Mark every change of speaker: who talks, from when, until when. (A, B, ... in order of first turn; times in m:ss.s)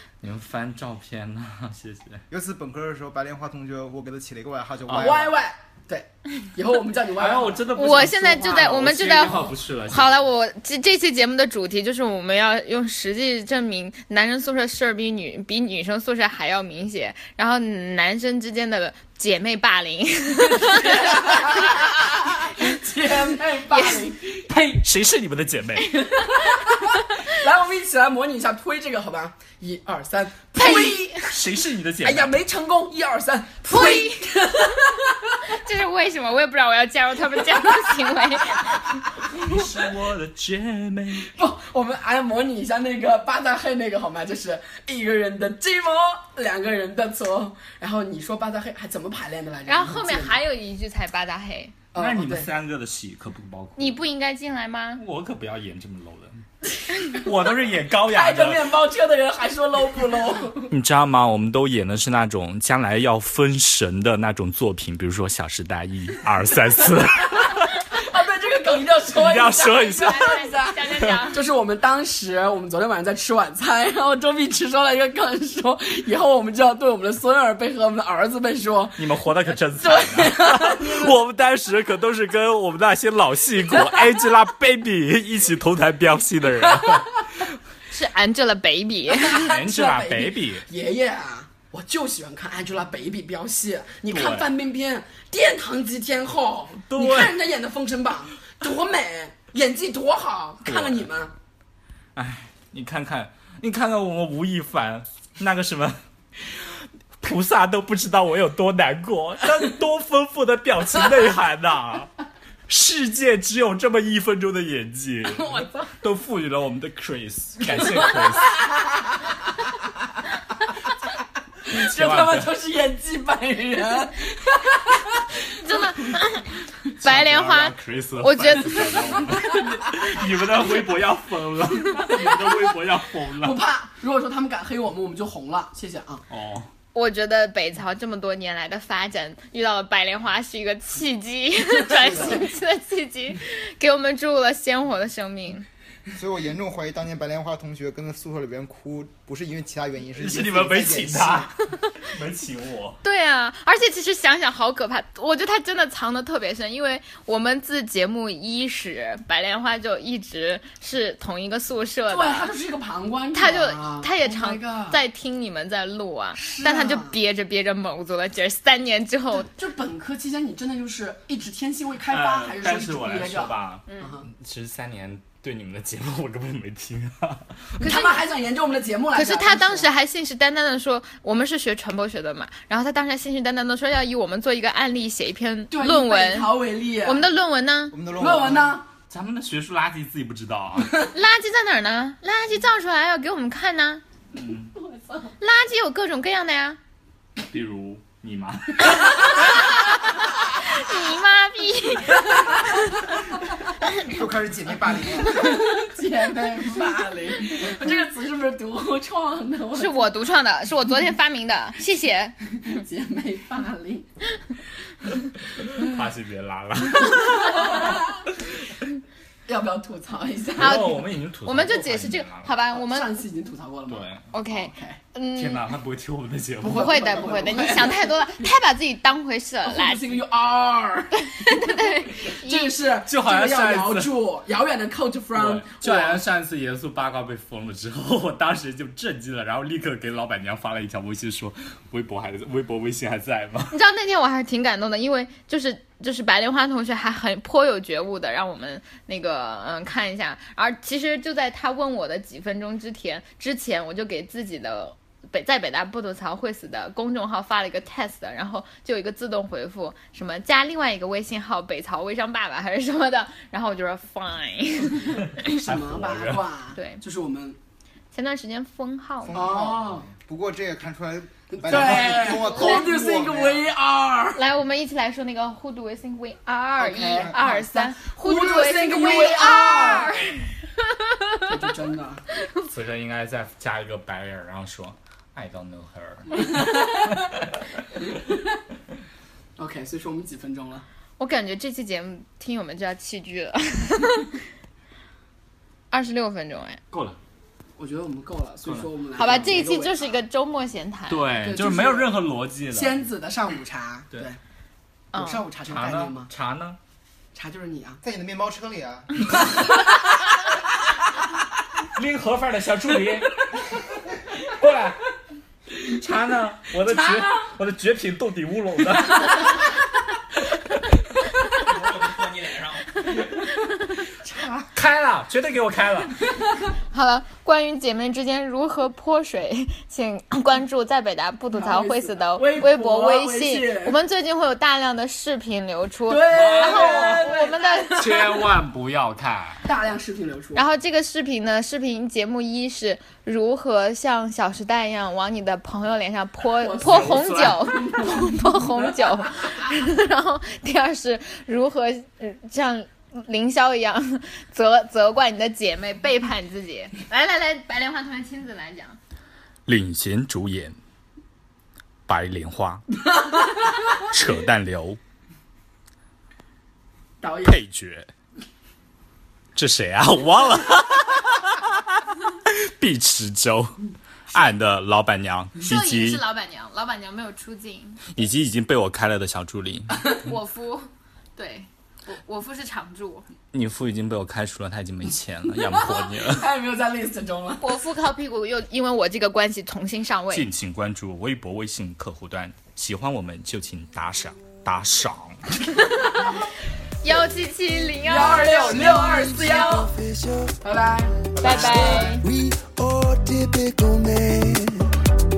0:00.2-0:02.2 A
0:02.3-0:05.4 B
0:04.9-0:05.2 A
0:05.0-0:08.8 C
0:07.2-0:10.2 A
0:07.7-0:21.6 D
0:20.4-0:24.4 C
0:24.5-0:26.0 A
0:26.1-0:31.3 C
0:30.6-0:32.4 A
0:30.6-0:31.0 D
0:32.0-0:35.4 C
0:33.7-0:34.3 D
0:35.5-0:39.0 D
0:39.3-0:41.3 A
0:41.3-0:50.4 C
0:49.6-0:51.7 D
0:51.9-0:52.5 C
0:51.9-0:54.0 A
0:53.8-0:55.0 D
0:55.0-0:56.4 A
0:57.0-0:58.7 A
0:58.1-1:00.7 C
1:00.7-1:07.8 A
1:07.9-1:19.2 C
1:09.1-1:10.3 A
1:09.8-1:11.4 D
1:19.0-1:27.2 A
1:19.8-1:21.1 C
1:27.9-1:29.5 D
1:29.1-1:41.3 C
1:29.3-1:30.6 A
1:34.1-1:34.5 A
1:36.8-1:37.4 A
1:40.6-1:41.1 A
1:42.1-1:52.1 A
1:52.7-1:58.6 A
1:55.3-1:55.8 C
2:01.7-2:02.5 A
2:01.7-2:05.3 C
2:05.6-2:09.0 D
2:07.0-2:13.6 A
2:13.4-2:16.2 C
2:16.3-2:16.7 A
2:16.9-2:25.6 D
2:21.9-2:22.4 C
2:22.0-2:22.4 B
2:26.1-2:31.5 B
2:30.2-2:33.0 A
2:33.0-2:42.5 D
2:42.1-2:45.0 C
2:43.3-2:49.5 D
2:46.4-2:47.2 C
2:49.4-2:54.3 C
2:52.1-2:57.7 A
2:53.9-2:54.1 D
2:57.8-2:59.9 C
2:57.8-2:58.2 D
2:59.1-3:08.0 D
3:05.7-3:07.3 C
3:07.9-3:08.8 B
3:08.1-3:08.8 C
3:09.1-3:11.1 A
3:11.1-3:14.0 D
3:14.3-3:14.7 A
3:14.8-3:15.3 C
3:15.4-3:16.8 D
3:17.5-3:19.3 A
3:19.3-3:23.0 D
3:24.0-3:25.6 B
3:25.2-3:30.1 C
3:29.7-3:32.4 D
3:32.6-3:34.1 C
3:35.6-3:38.1 A
3:37.4-3:38.2 C
3:39.5-3:40.8 C
3:40.6-3:42.5 A
3:40.6-3:43.2 D
3:42.7-3:45.0 C
3:43.9-3:44.2 A
3:44.3-3:45.7 D
3:45.4-3:47.0 A
3:46.6-3:48.5 C
3:46.7-3:50.2 D
3:49.6-3:56.2 C
3:51.3-3:52.8 D
3:53.0-3:54.1 A
3:55.3-4:03.7 A
4:03.7-4:25.5 D
4:25.4-4:26.4 A
4:25.6-4:27.6 C
4:26.7-4:27.0 D
4:28.1-4:29.5 D
4:29.2-4:33.7 B
4:29.3-4:30.0 C
4:31.5-4:34.4 C
4:31.8-4:32.1 A
4:32.2-4:32.9 D
4:34.3-4:41.5 D
4:36.8-4:40.2 C
4:41.5-4:42.2 C
4:42.7-4:46.6 A
4:46.5-4:47.1 C
4:49.6-4:50.8 C
4:51.2-4:54.4 D
4:55.9-4:56.8 D
4:56.9-4:57.2 A
4:57.8-5:00.1 C
4:59.2-5:01.3 D
5:01.1-5:03.0 A
5:01.4-5:02.1 C
5:02.7-5:04.4 C
5:05.1-5:05.4 D
5:05.1-5:06.3 C
5:05.7-5:06.8 A
5:07.3-5:08.0 C
5:08.0-5:09.1 B
5:11.9-5:15.0 A
5:15.8-5:19.6 A
5:16.8-5:17.5 C
5:21.4-5:23.2 A
5:24.2-5:24.7 C
5:24.7-5:26.2 A
5:26.9-5:38.1 D
5:31.5-5:34.0 C
5:36.1-5:38.4 C
5:36.3-5:37.3 A
5:37.9-5:39.7 A
5:39.6-5:40.6 C
5:40.5-5:59.0 D
5:46.6-5:49.7 C
5:46.8-5:47.6 A
5:59.7-6:00.8 A
6:02.1-6:02.8 A
6:03.1-6:03.4 C
6:04.0-6:05.0 A
6:07.2-6:07.6 C
6:07.4-6:08.1 A
6:09.5-6:11.7 A
6:12.3-6:13.8 A
6:14.3-6:16.2 A
6:15.6-6:18.0 D
6:18.1-6:20.0 A
6:20.2-6:23.2 D
6:23.5-6:26.5 A
6:25.8-6:27.6 C
6:27.6-6:30.5 D
6:30.3-6:35.4 A
6:37.0-6:39.8 D
6:38.0-6:39.9 C
6:38.8-6:40.6 E
6:40.6-6:42.1 C
6:41.3-6:45.0 E
6:41.4-6:42.2 D